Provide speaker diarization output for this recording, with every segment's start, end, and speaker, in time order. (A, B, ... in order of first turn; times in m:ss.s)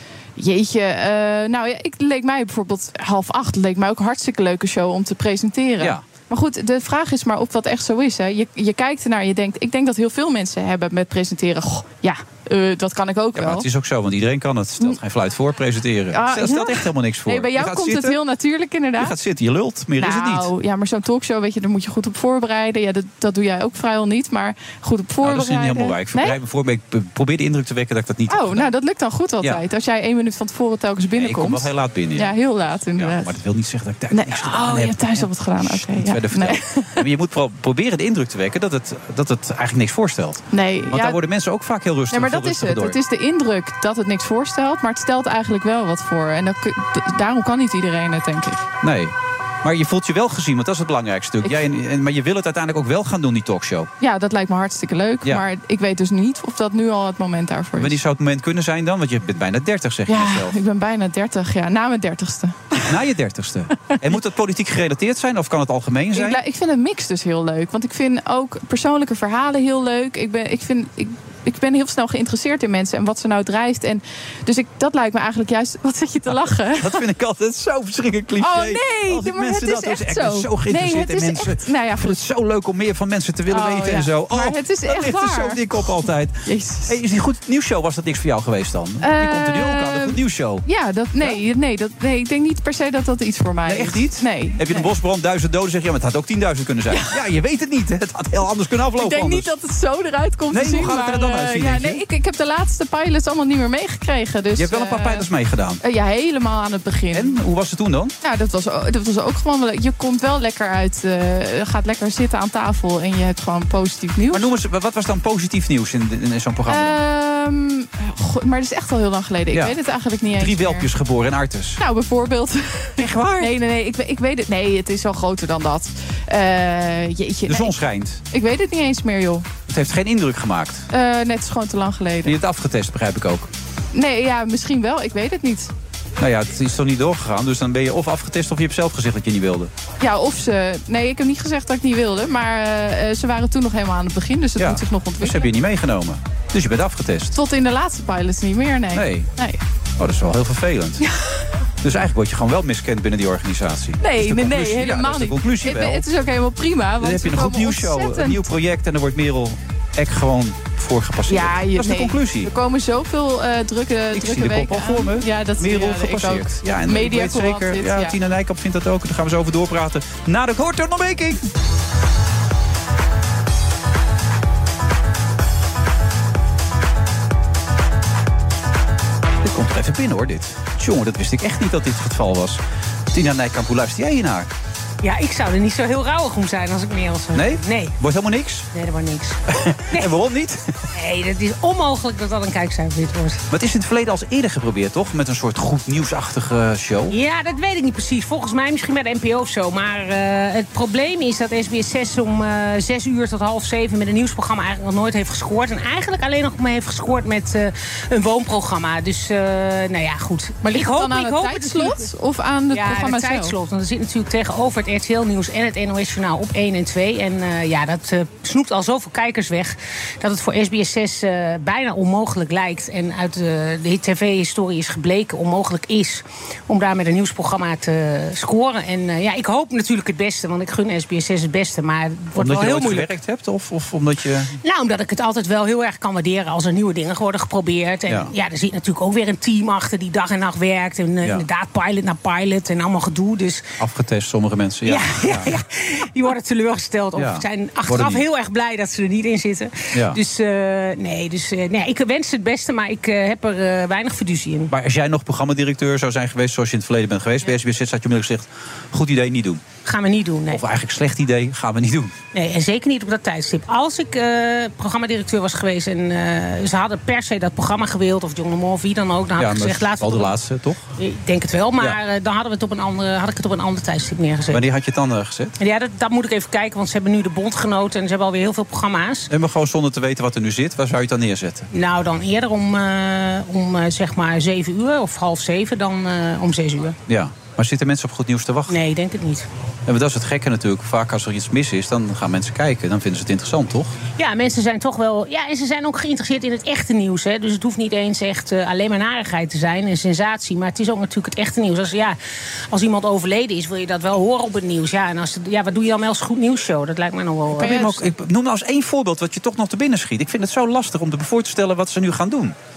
0:00.4-0:13.7 A
0:13.4-0:18.2 B
0:16.1-0:19.2 A
0:19.0-0:20.5 B
0:20.0-0:26.4 A
0:25.2-0:28.7 B
0:28.3-0:33.3 A
0:31.2-0:32.4 B
0:33.0-0:43.0 B
0:34.1-0:37.0 A
0:40.5-0:41.2 A
0:42.1-0:48.6 A
0:48.8-0:53.9 B
0:54.0-0:58.0 A
0:57.8-1:00.6 B
1:00.1-1:02.9 A
1:02.8-1:06.4 B
1:06.1-1:17.0 A
1:16.3-1:30.6 B
1:18.4-1:22.2 A
1:23.5-1:25.9 A
1:26.4-1:27.0 A
1:29.0-1:34.9 A
1:33.6-1:39.5 B
1:39.0-1:45.3 A
1:40.5-1:42.0 B
1:44.6-1:45.8 B
1:45.8-1:47.4 A
1:47.1-1:48.1 B
1:48.2-1:54.5 A
1:54.3-1:57.0 B
1:56.7-2:00.9 A
1:59.5-1:59.8 B
2:00.4-2:01.8 B
2:01.8-2:07.8 A
2:03.0-2:03.5 B
2:07.5-2:08.2 B
2:08.3-2:09.5 A
2:09.7-2:10.9 B
2:10.9-2:12.4 A
2:12.2-2:13.5 B
2:13.9-2:15.7 A
2:16.2-2:19.7 B
2:20.0-2:25.5 A
2:24.6-2:27.4 B
2:27.3-2:29.6 A
2:28.9-2:29.3 B
2:30.0-2:31.0 B
2:31.0-2:31.3 A
2:31.8-2:36.1 B
2:34.0-2:38.4 A
2:37.0-2:42.5 B
2:41.3-2:48.2 A
2:44.1-2:51.5 B
2:59.4-3:04.5 B
3:05.0-3:08.0 C
3:07.3-3:08.7 B
3:08.7-3:09.4 C
3:09.5-3:10.7 B
3:10.9-3:13.4 C
3:13.5-3:17.2 B
3:17.1-3:32.1 C
3:30.6-3:33.5 A
3:32.7-3:53.1 C
3:52.4-3:54.6 B
3:54.6-4:03.7 C
3:58.1-3:58.3 B
4:03.8-4:05.5 B
4:04.9-4:14.7 C
4:07.2-4:08.2 B
4:09.9-4:10.2 B
4:14.7-4:19.6 B
4:19.9-4:20.6 C
4:20.5-4:22.1 B
4:22.3-4:30.3 C
4:29.4-4:30.8 B
4:31.0-4:34.6 C
4:34.5-4:35.6 B
4:35.6-4:39.3 C
4:39.3-4:41.7 B
4:41.7-4:47.0 C
4:47.1-4:48.8 B
4:48.7-4:49.5 C
4:49.9-4:54.0 B
4:54.2-5:02.2 C
5:02.7-5:08.0 C
5:07.6-5:12.6 B
5:07.6-5:08.0 A